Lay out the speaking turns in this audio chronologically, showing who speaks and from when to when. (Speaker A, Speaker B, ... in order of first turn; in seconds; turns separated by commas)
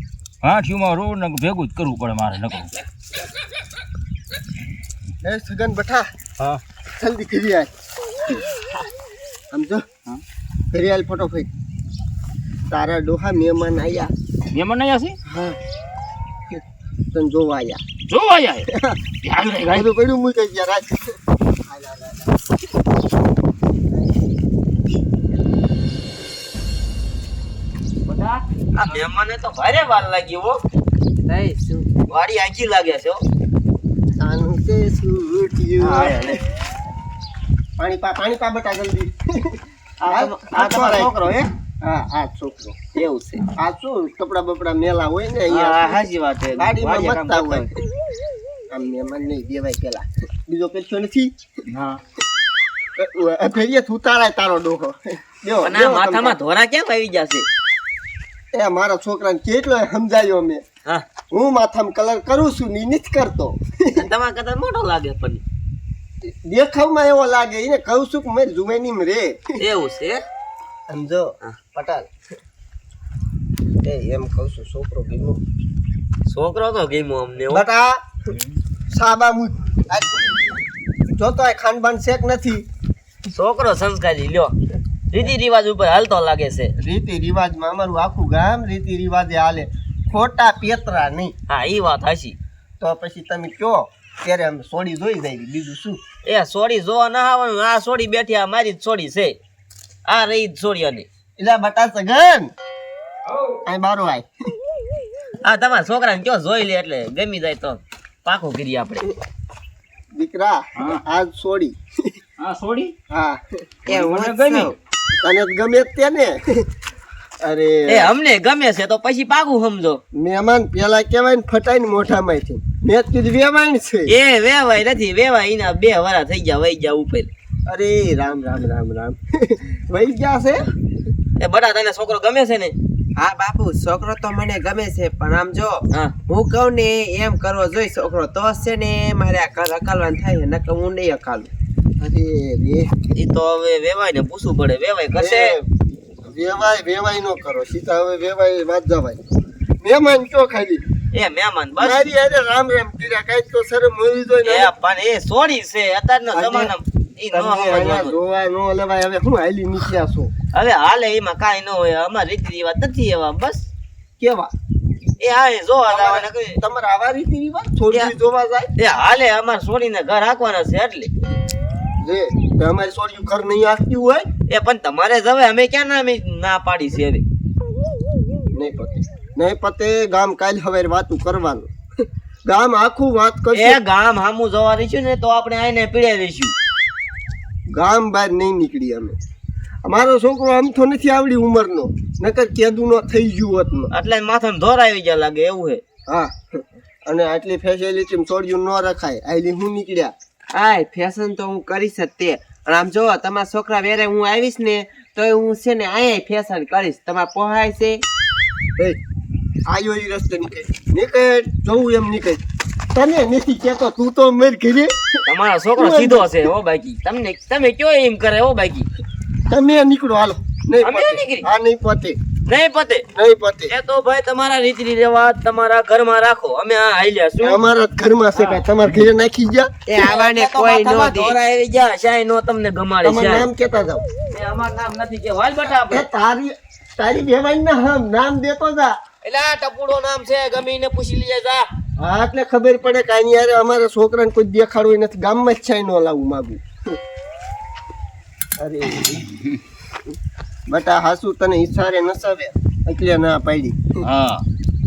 Speaker A: 0.4-2.7, Speaker B: 5.2-6.1, Speaker B: 7.0-7.7, Speaker B: 9.5-9.8, Speaker B: 10.7-11.5, Speaker B: 12.7-14.1, Speaker A: 14.5-15.2, Speaker B: 17.1-17.8, Speaker A: 18.1-18.7, Speaker B: 18.7-19.0, Speaker A: 19.2-19.9, Speaker B: 19.6-21.0, Speaker B: 21.6-22.5, Speaker B: 23.9-24.3, Speaker C: 28.7-30.6, Speaker D: 31.2-31.9, Speaker C: 32.1-33.2, Speaker B: 34.2-36.4, Speaker C: 35.8-36.4, Speaker B: 37.8-41.1, Speaker C: 40.0-41.5, Speaker B: 41.8-42.8, Speaker C: 42.9-43.5, Speaker B: 43.6-46.0, Speaker C: 45.5-47.7, Speaker B: 46.6-47.8, Speaker B: 48.7-51.3, Speaker A: 51.7-52.0, Speaker B: 53.0-56.4, Speaker C: 55.6-57.5, Speaker B: 58.5-60.6, Speaker B: 61.3-64.1, Speaker C: 63.9-65.4, Speaker B: 66.2-69.4, Speaker C: 69.6-70.2, Speaker B: 70.9-72.1, Speaker B: 73.8-75.4, Speaker C: 76.3-77.6, Speaker B: 77.5-78.0, Speaker B: 78.9-80.3, Speaker B: 81.1-82.6, Speaker C: 83.3-84.5, Speaker C: 85.1-86.7, Speaker B: 86.8-91.3, Speaker C: 91.5-92.4, Speaker B: 92.8-96.0, Speaker C: 96.2-99.4, Speaker C: 100.0-101.1, Speaker B: 101.4-102.5, Speaker A: 103.2-103.6, Speaker B: 103.6-104.3, Speaker C: 105.4-109.0, Speaker B: 110.1-112.1, Speaker A: 112.4-112.9, Speaker B: 113.1-113.4, Speaker D: 113.9-114.8, Speaker A: 113.9-114.7, Speaker B: 115.2-116.6, Speaker B: 117.4-118.1, Speaker C: 117.9-120.0, Speaker B: 120.1-124.1, Speaker C: 124.1-127.3, Speaker B: 127.7-130.6, Speaker C: 131.4-132.7, Speaker D: 133.2-141.5, Speaker B: 142.0-143.1, Speaker C: 143.2-145.6, Speaker B: 145.1-145.7, Speaker B: 146.2-149.2, Speaker B: 149.8-150.8, Speaker C: 151.1-152.1, Speaker B: 151.8-154.7, Speaker C: 154.4-158.1, Speaker B: 156.3-156.7, Speaker B: 157.3-160.3, Speaker C: 160.5-163.7, Speaker B: 164.2-164.5, Speaker C: 165.2-166.6, Speaker B: 165.9-168.7, Speaker C: 168.8-171.1, Speaker B: 172.0-174.2, Speaker C: 174.5-177.2, Speaker B: 178.5-181.7, Speaker B: 182.4-183.8, Speaker C: 183.5-186.5, Speaker B: 187.7-189.2, Speaker B: 189.8-193.9, Speaker C: 193.9-195.8, Speaker B: 196.1-200.1, Speaker D: 200.5-208.0, Speaker B: 209.7-212.4, Speaker B: 212.9-215.2, Speaker C: 215.3-218.9, Speaker B: 215.8-216.5, Speaker B: 219.5-222.2, Speaker C: 220.8-221.4, Speaker C: 222.5-223.0, Speaker B: 223.1-223.7, Speaker C: 223.7-227.6, Speaker B: 227.4-229.7, Speaker D: 229.8-231.4, Speaker C: 230.0-233.5, Speaker B: 233.0-234.0, Speaker C: 234.3-236.0, Speaker B: 235.7-238.9, Speaker C: 239.2-241.6, Speaker B: 242.0-246.6, Speaker B: 248.6-249.3, Speaker B: 250.7-253.9, Speaker A: 254.0-254.4